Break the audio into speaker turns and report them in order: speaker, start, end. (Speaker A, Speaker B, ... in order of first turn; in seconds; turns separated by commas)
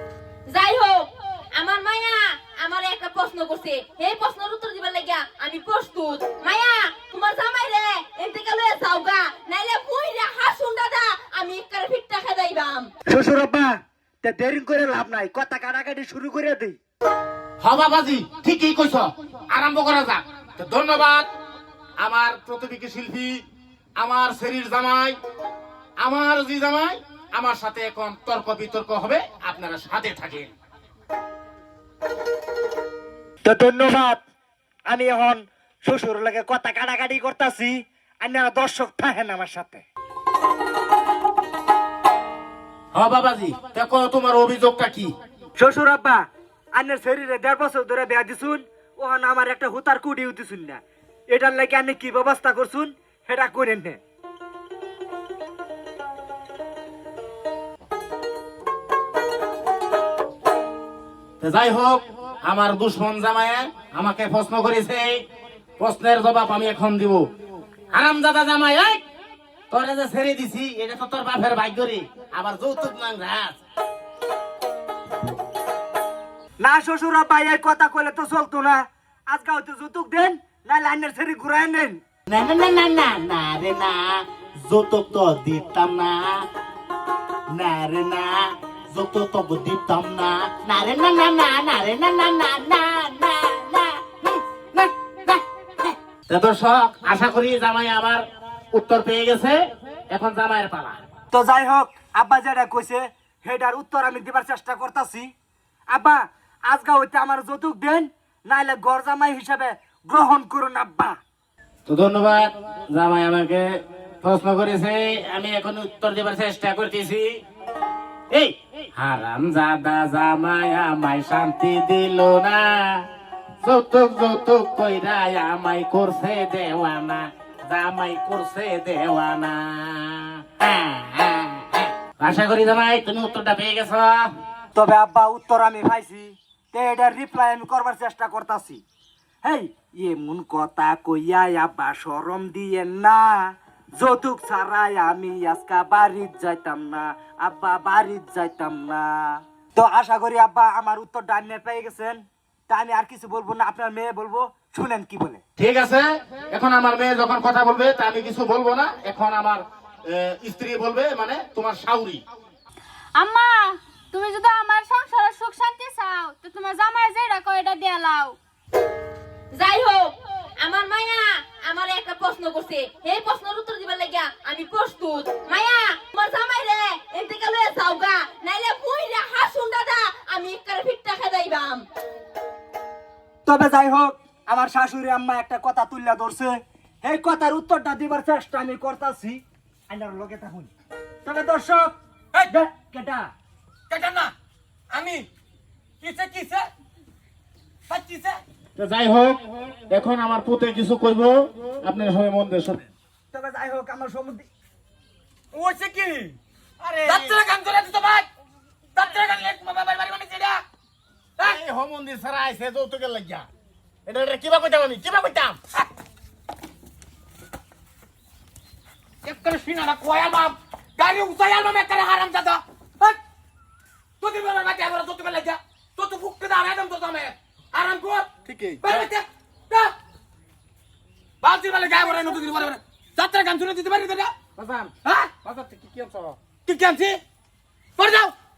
Speaker A: 0.5-12.9, Speaker B: 13.1-16.8, Speaker C: 17.6-21.3, Speaker C: 22.0-23.4, Speaker C: 24.0-25.2, Speaker C: 26.0-30.5, Speaker B: 33.5-34.2, Speaker B: 34.9-39.8, Speaker C: 42.9-45.1, Speaker B: 45.6-46.2, Speaker B: 46.7-54.0, Speaker C: 61.4-65.1, Speaker C: 65.8-67.2, Speaker C: 67.9-69.0, Speaker C: 69.7-73.6, Speaker B: 76.6-82.0, Speaker C: 82.3-86.4, Speaker C: 87.5-95.4, Speaker C: 96.3-101.0, Speaker B: 101.3-105.3, Speaker B: 105.9-111.2, Speaker C: 111.9-113.7, Speaker C: 114.2-117.3, Speaker C: 118.3-123.0, Speaker C: 123.6-134.3, Speaker B: 134.8-138.8, Speaker B: 139.4-143.4, Speaker B: 144.0-155.4, Speaker C: 155.6-162.2, Speaker D: 163.2-168.4, Speaker A: 169.5-181.8, Speaker B: 183.4-190.7, Speaker B: 191.2-193.3, Speaker E: 193.9-194.3, Speaker E: 194.9-195.2, Speaker E: 196.0-196.7, Speaker E: 197.9-198.4, Speaker C: 198.8-202.9, Speaker B: 203.3-204.5, Speaker E: 205.5-208.3, Speaker E: 208.9-210.6, Speaker C: 211.4-213.5, Speaker C: 214.1-215.6, Speaker E: 219.2-223.2, Speaker E: 224.2-229.9, Speaker C: 228.4-229.1, Speaker E: 231.4-234.3, Speaker C: 234.6-236.4, Speaker E: 235.0-235.4, Speaker E: 236.6-237.2, Speaker E: 238.0-238.3